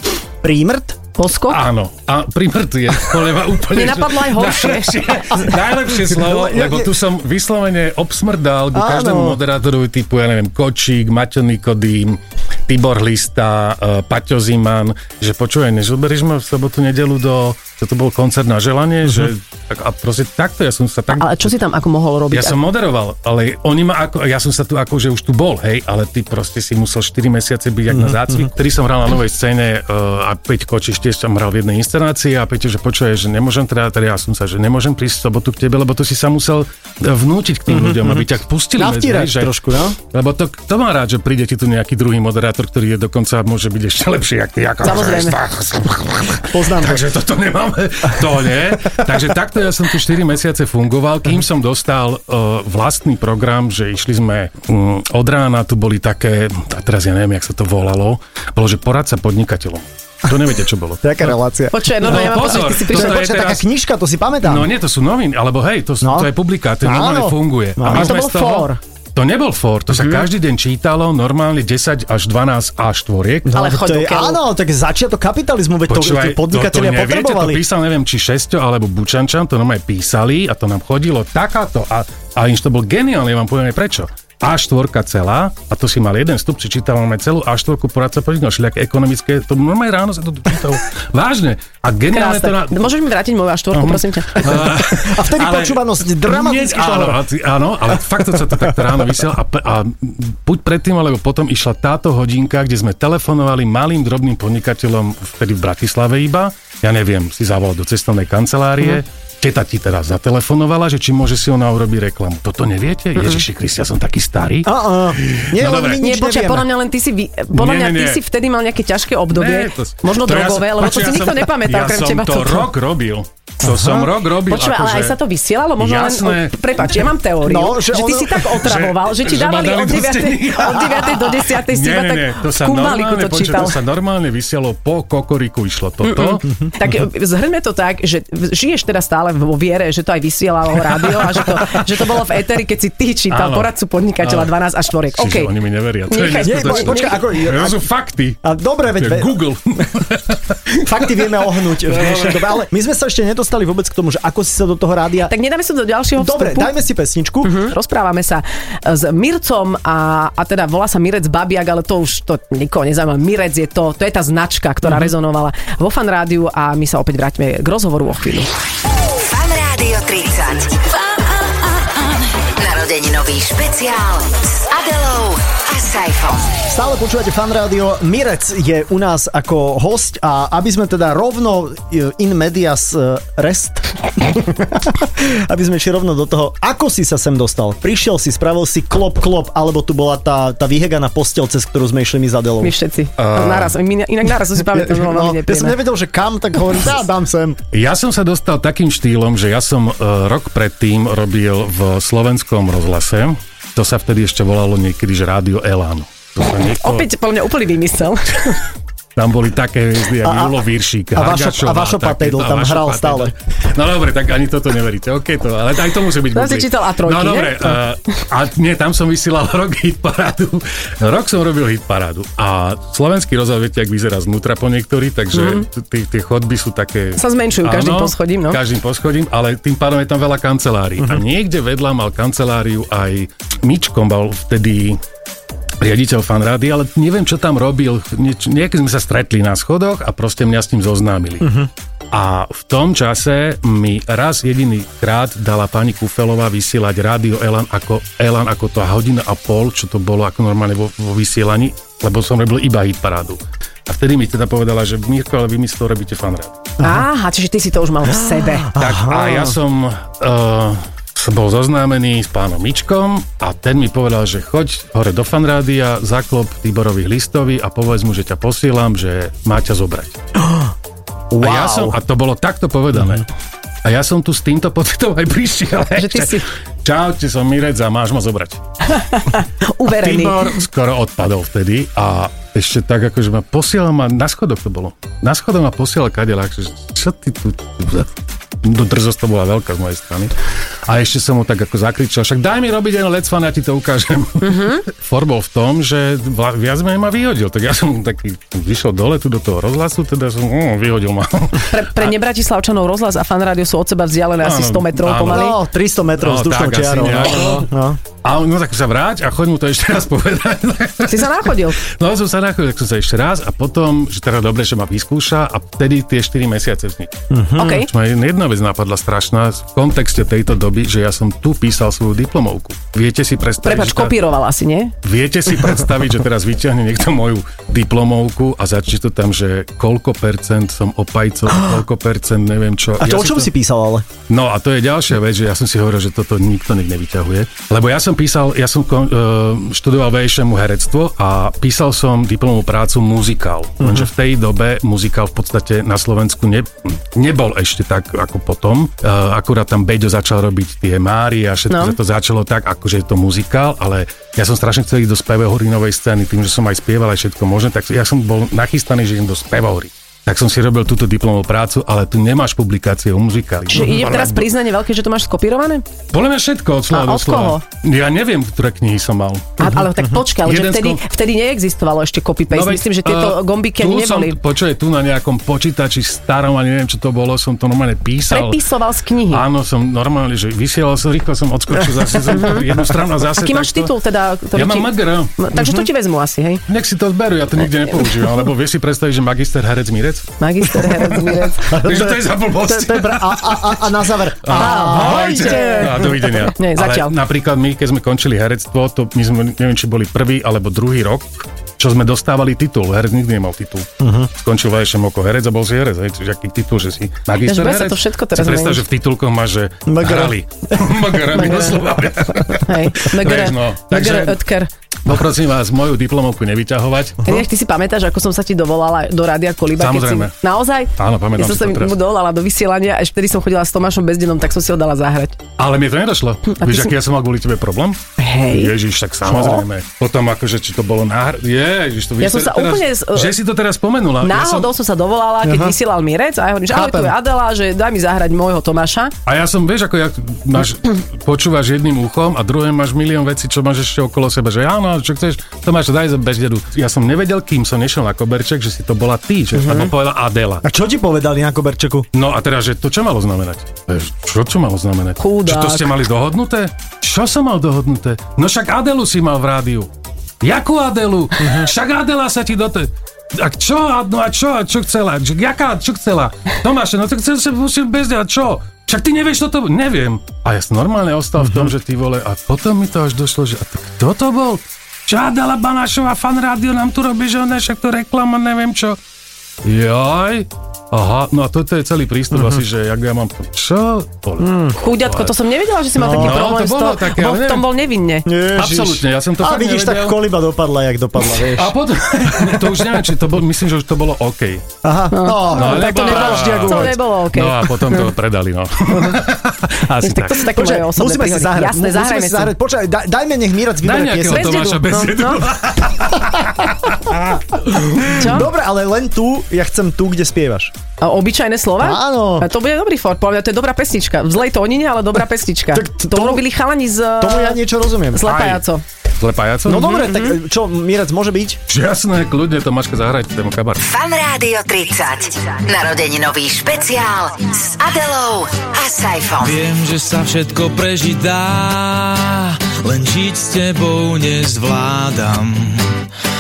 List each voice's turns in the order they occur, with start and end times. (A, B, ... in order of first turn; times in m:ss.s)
0:00.4-0:01.0 A
0:01.2-0:01.6 B
0:01.5-0:21.6 C
0:03.8-0:05.1 B
0:06.2-0:06.9 A
0:08.7-0:09.4 A
0:21.2-0:22.6 B
0:22.3-0:39.6 C
0:27.9-0:28.4 A
0:37.7-0:38.2 A
0:38.8-0:40.0 A
0:40.1-1:01.4 C
0:44.8-0:45.4 B
0:46.5-0:47.1 A
1:01.0-1:04.7 A
1:01.7-1:03.2 B
1:02.0-1:03.6 C
1:04.4-1:13.7 C
1:06.0-1:06.3 A
1:06.8-1:08.2 A
1:07.9-1:08.8 B
1:13.5-1:17.6 A
1:13.6-1:14.4 B
1:15.9-1:32.9 C
1:32.1-1:34.4 B
1:33.7-1:56.0 C
1:34.6-1:37.2 A
1:53.2-1:53.4 B
1:54.6-1:56.7 A
1:56.0-2:02.7 B
1:57.5-1:58.2 C
1:59.3-2:05.2 C
2:03.7-2:04.1 A
2:04.5-2:13.8 B
2:05.8-2:07.0 C
2:07.4-2:08.6 A
2:08.6-2:16.5 C
2:16.0-2:25.5 B
2:23.3-2:24.5 C
2:25.1-2:28.4 C
2:26.1-2:27.1 B
2:26.4-2:27.8 A
2:28.4-2:29.4 A
2:29.0-2:30.8 C
2:30.8-2:35.3 A
2:31.8-2:32.6 C
2:35.3-2:36.7 B
2:36.2-2:37.7 A
2:37.4-2:48.5 B
2:49.1-2:50.8 D
2:52.6-2:56.6 D
2:56.7-3:12.8 A
3:12.6-3:15.8 B
3:13.2-3:13.8 C
3:14.7-3:17.6 A
3:17.7-3:27.1 C
3:26.8-3:28.6 B
3:29.2-3:55.0 C
3:30.2-3:30.6 A
3:31.2-3:33.3 A
3:36.3-3:37.8 B
3:45.4-3:45.6 B
3:47.2-3:48.6 B
3:55.8-4:01.5 C
4:01.4-4:01.7 A
4:02.1-4:16.7 C
4:16.8-4:18.7 B
4:18.1-4:19.6 A
4:18.8-4:30.2 C
4:30.4-4:30.7 A
4:31.3-4:32.0 A
4:31.4-4:33.3 C
4:33.8-4:38.6 C
4:36.0-4:36.5 B
4:39.0-4:40.5 B
4:39.9-4:48.1 C
4:48.6-4:50.3 C
4:50.9-5:02.1 C
4:54.4-4:54.8 B
5:01.7-5:05.6 B
5:04.4-5:05.5 C
5:05.3-5:08.0 A
5:06.2-5:07.7 C
5:08.2-5:24.2 C
5:11.1-5:11.8 B
5:17.3-5:17.8 A
5:17.6-5:17.9 B
5:23.6-5:24.9 B
5:25.0-5:33.5 C
5:33.0-5:34.1 A
5:34.3-6:04.5 C
5:43.8-5:44.1 A
5:51.7-5:52.0 B
6:03.7-6:05.8 B
6:06.1-6:09.8 C
6:06.9-6:07.6 B
6:09.6-6:14.4 B
6:10.4-6:11.0 C
6:12.5-6:18.6 C
6:18.3-6:19.4 B
6:19.3-6:23.9 C
6:22.3-6:22.7 B
6:23.4-6:26.6 B
6:24.5-6:25.4 C
6:25.6-6:25.9 A
6:26.7-6:30.3 C
6:30.4-6:31.7 B
6:31.6-6:36.1 A
6:31.7-6:33.8 C
6:34.4-6:54.4 C
6:34.5-6:37.1 B
6:44.0-6:44.3 A
6:47.4-6:48.8 B
6:49.9-6:50.9 A
6:51.3-6:51.8 B
6:52.6-6:54.7 B
6:55.0-6:57.3 C
6:57.2-7:05.4 B
6:59.8-7:00.4 C
7:01.0-7:02.0 C
7:05.6-7:14.7 C
7:06.6-7:06.9 B
7:08.2-7:08.7 B
7:09.3-7:09.6 A
7:12.2-7:13.3 B
7:14.2-7:19.1 B
7:15.4-7:15.8 A
7:16.7-7:17.1 A
7:19.3-7:30.6 C
7:30.6-7:32.1 A
7:32.1-7:39.9 C
7:35.2-7:35.9 B
7:40.4-7:59.0 C
7:41.4-7:41.7 A
7:51.4-7:51.7 A
7:59.6-8:05.4 C
8:02.3-8:02.6 A
8:04.4-8:04.8 A
8:04.8-8:08.3 B
8:06.0-8:06.5 A
8:06.1-8:07.7 C
8:08.2-8:11.8 A
8:08.6-8:10.2 C
8:11.5-8:14.7 C
8:12.4-8:12.8 A
8:14.8-8:17.0 A
8:15.1-8:18.0 B
8:15.5-8:20.5 C
8:20.0-8:22.5 B
8:20.5-8:24.7 A
8:23.8-8:28.1 C
8:24.3-8:25.4 B
8:28.0-8:30.7 A
8:28.1-8:28.5 B
8:31.0-8:37.6 B
8:31.8-8:32.5 A
8:35.7-8:36.4 A
8:37.2-8:38.3 A
8:38.1-8:38.8 B
8:38.3-8:38.6 C
8:39.2-8:40.1 C
8:39.7-8:41.6 A
8:39.9-8:40.4 B
8:41.7-8:43.8 C
8:43.8-8:49.7 D
8:49.4-8:56.1 E